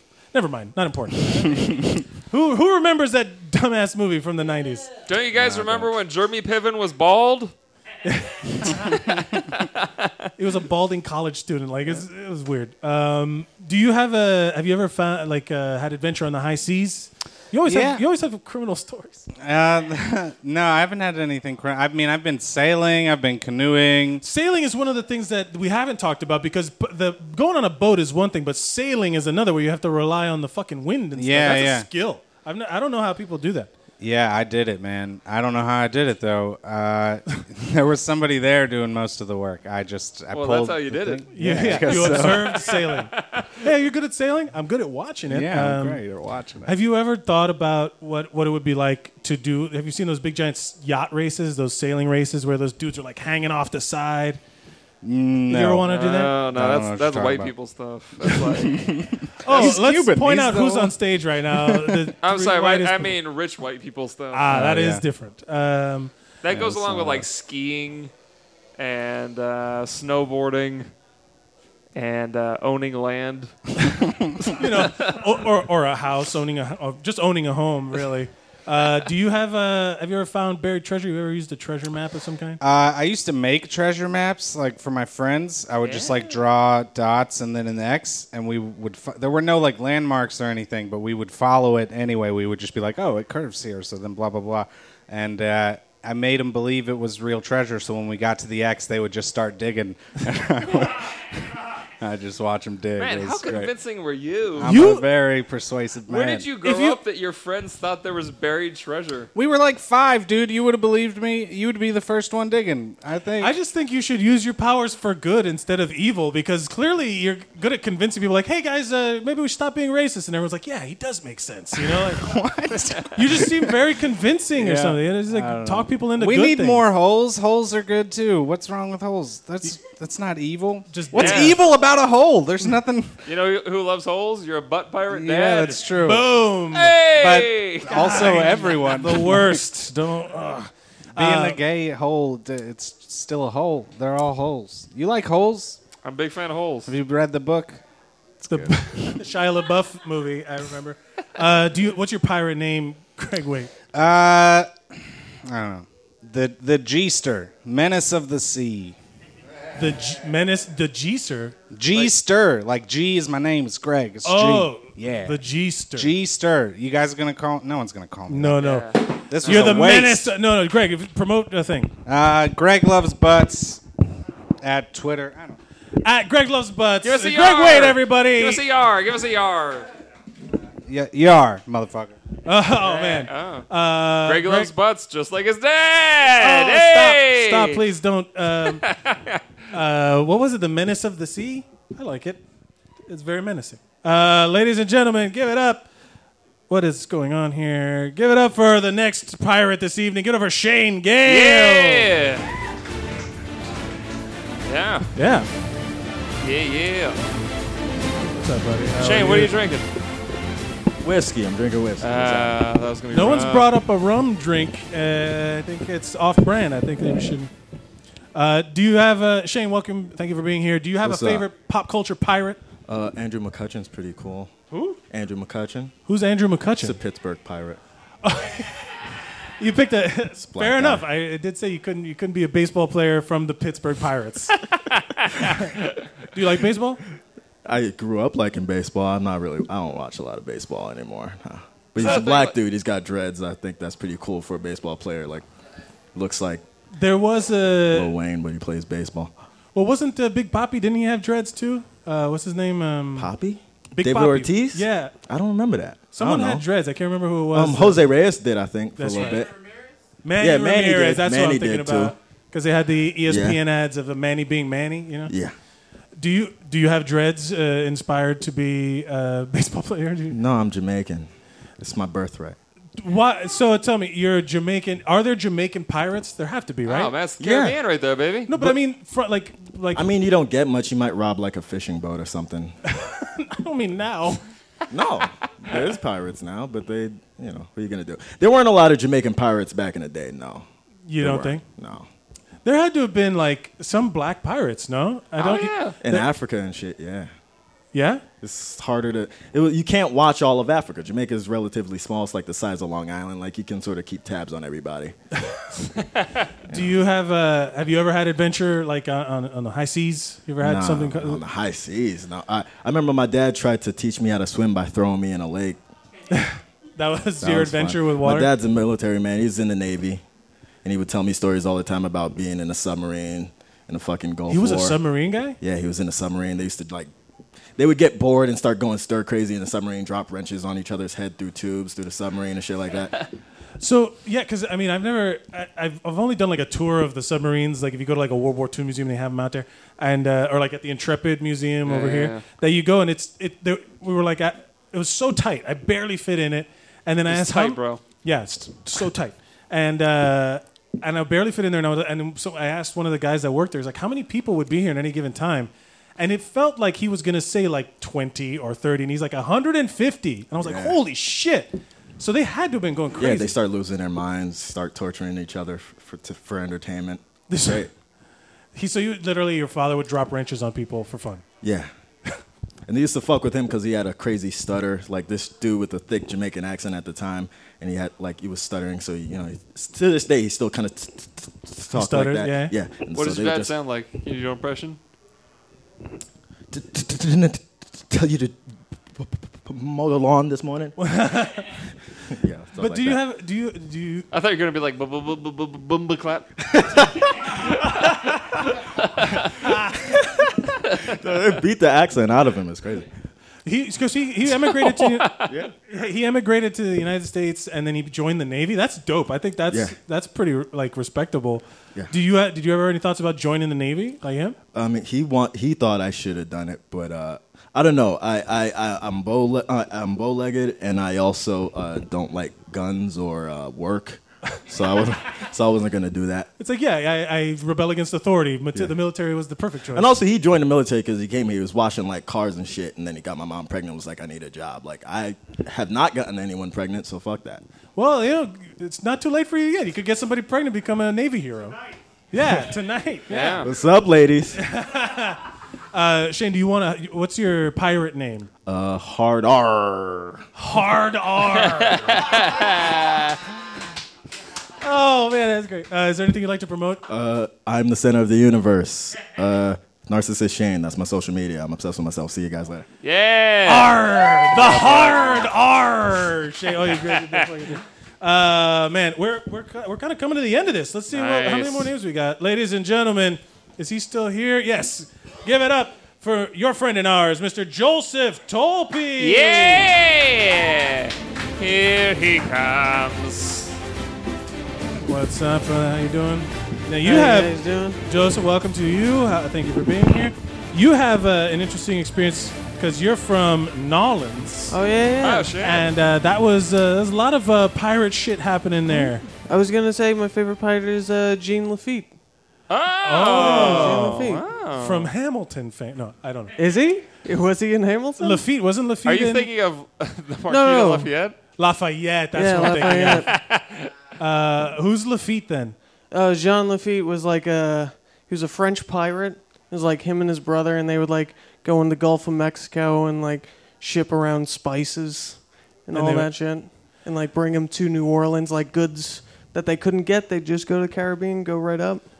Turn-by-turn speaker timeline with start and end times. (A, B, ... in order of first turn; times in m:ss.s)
0:00.3-0:04.9 A
0:05.1-0:07.5 B
0:05.3-0:05.9 C
0:08.1-0:09.2 A
0:09.6-0:10.1 B
0:10.4-0:19.3 A
0:17.6-0:18.0 C
0:19.4-0:24.2 C
0:24.2-0:33.7 A
0:31.2-0:31.9 C
0:34.0-0:42.7 C
0:40.3-0:43.5 B
0:41.3-0:46.1 A
0:45.3-0:46.7 C
0:46.6-0:54.4 A
0:55.0-0:57.5 C
0:55.5-0:56.4 A
0:55.9-0:58.9 B
0:58.2-1:01.0 C
0:59.4-1:03.2 A
1:01.5-1:02.1 C
1:02.2-1:04.5 B
1:04.3-1:06.1 A
1:04.5-1:05.0 C
1:06.4-1:08.1 B
1:06.5-1:07.3 C
1:08.8-1:10.9 B
1:12.0-1:13.6 B
1:14.4-1:15.2 B
1:14.6-1:22.6 A
1:22.6-1:41.1 C
1:25.8-1:26.4 B
1:42.0-1:43.7 C
1:43.0-1:44.8 B
1:44.6-1:46.5 C
1:44.6-1:45.1 A
1:46.1-1:49.3 B
1:46.6-1:47.0 A
1:49.4-1:53.5 C
1:53.4-2:02.4 A
2:01.8-2:03.8 C
2:03.1-2:06.9 A
2:04.6-2:13.2 C
2:10.9-2:11.6 A
2:11.1-2:11.6 B
2:13.2-2:15.8 B
2:15.1-2:16.3 C
2:15.8-2:17.0 A
2:16.7-2:18.2 B
2:17.1-2:19.6 C
2:17.9-2:21.6 A
2:21.2-2:25.8 C
2:26.0-2:26.9 B
2:26.9-2:27.8 C
2:28.5-2:33.7 A
2:33.9-2:34.7 C
2:35.5-2:39.0 C
2:39.8-2:42.1 A
2:41.7-2:45.4 C
2:44.2-2:46.1 A
2:46.0-2:50.3 C
2:48.3-2:51.9 A
2:48.6-2:50.0 B
2:52.1-2:53.8 C
2:54.6-2:55.6 C
2:56.0-2:58.6 A
2:57.0-2:59.9 B
3:00.9-3:02.2 C
3:02.4-3:04.7 A
3:02.8-3:03.7 B
3:04.2-3:07.8 B
3:06.4-3:08.8 A
3:08.7-3:09.4 B
3:09.7-3:12.4 A
3:13.1-3:15.9 A
3:16.7-3:22.1 A
3:21.2-3:22.5 B
3:24.7-3:25.1 B
3:25.2-3:25.5 A
3:26.4-3:27.2 B
3:28.4-3:29.5 A
3:29.0-3:29.9 B
3:31.0-3:32.6 D
3:32.0-3:33.7 B
3:33.1-3:37.5 A
3:38.4-3:42.6 A
3:41.0-3:41.5 D
3:42.9-3:44.5 D
3:44.7-3:45.0 A
3:45.1-3:45.9 D
3:46.1-3:47.0 A
3:46.8-3:47.8 D
3:48.2-3:48.9 A
3:49.6-3:54.6 A
3:50.4-3:51.0 D
3:55.0-3:55.2 B
3:55.4-3:55.7 A
3:56.3-3:57.0 A
3:57.6-4:05.4 D
4:02.0-4:02.6 B
4:06.2-4:06.6 D
4:07.0-4:08.1 A
4:07.9-4:09.3 D
4:09.8-4:13.3 A
4:13.2-4:16.6 D
4:14.0-4:15.1 A
4:16.1-4:18.1 A
4:17.5-4:19.5 D
4:19.0-4:19.4 A
4:20.2-4:25.3 A
4:20.4-4:22.2 D
4:23.3-4:23.6 D
4:25.3-4:25.5 D
4:26.2-4:30.4 A
4:30.3-4:31.3 D
4:31.8-4:32.6 D
4:33.0-4:37.2 A
4:36.9-4:38.5 B
4:37.4-4:37.8 D
4:38.5-4:40.1 A
4:38.5-4:38.8 D
4:39.9-4:42.8 D
4:42.8-4:44.4 A
4:44.9-4:50.6 D
4:51.1-4:51.6 A
4:51.2-4:52.1 D
4:52.6-4:56.3 A
4:55.4-4:56.0 B
4:56.0-4:57.3 D
4:57.9-4:58.2 A
4:58.4-5:05.1 D
5:06.7-5:07.0 D
5:06.7-5:11.4 A
5:10.6-5:15.8 D
5:16.3-5:18.5 A
5:17.4-5:20.2 D
5:20.8-5:25.0 D
5:24.5-5:25.6 A
5:25.6-5:27.1 D
5:27.8-5:33.2 D
5:33.8-6:03.5 A
5:41.9-5:42.4 B
5:47.3-5:48.0 B
6:00.6-6:01.0 D
6:03.2-6:07.9 D
6:07.5-6:07.9 A
6:08.8-6:11.4 A
6:11.6-6:11.9 D
6:12.9-6:23.7 D
6:21.9-6:22.8 A
6:23.1-6:25.0 B
6:26.7-6:28.5 D
6:29.2-6:31.0 D
6:31.0-6:31.7 A
6:32.4-6:33.2 D
6:32.8-6:34.3 A
6:34.3-6:36.5 B
6:36.7-6:37.2 D
6:39.2-6:39.5 B
6:39.9-6:40.5 D
6:41.0-6:43.1 D
6:43.7-6:54.6 A
6:44.8-6:45.5 B
6:45.5-6:45.7 D
6:49.7-6:50.0 D
6:54.7-7:06.5 D
7:06.6-7:10.2 A
7:09.9-7:17.6 D
7:18.0-7:21.8 A
7:22.3-7:23.7 A
7:23.3-7:23.7 B
7:23.6-7:24.6 D
7:24.5-7:25.4 A
7:25.9-7:28.5 A
7:28.7-7:30.4 D
7:30.6-7:32.2 A
7:31.6-7:33.4 B
7:34.8-7:37.0 A
7:37.1-7:42.9 D
7:43.0-7:45.5 B
7:43.7-7:59.9 A
7:47.0-7:47.5 B
7:51.1-7:51.9 B
7:59.2-8:03.8 B
8:05.0-8:14.8 A
8:07.0-8:08.0 E
8:14.7-8:15.5 E
8:15.2-8:15.8 B
8:15.6-8:19.2 A
8:19.5-8:22.1 E
8:22.7-8:25.1 B
8:23.0-8:26.6 A
8:23.4-8:24.4 E
8:26.6-8:28.4 E
8:28.2-8:29.5 A
8:29.0-8:31.4 B
8:30.5-8:31.1 E
8:31.6-8:33.3 A
8:32.3-8:33.3 E
8:32.6-8:33.9 B
8:34.2-8:35.8 A
8:36.1-8:52.0 E
8:45.9-8:46.3 A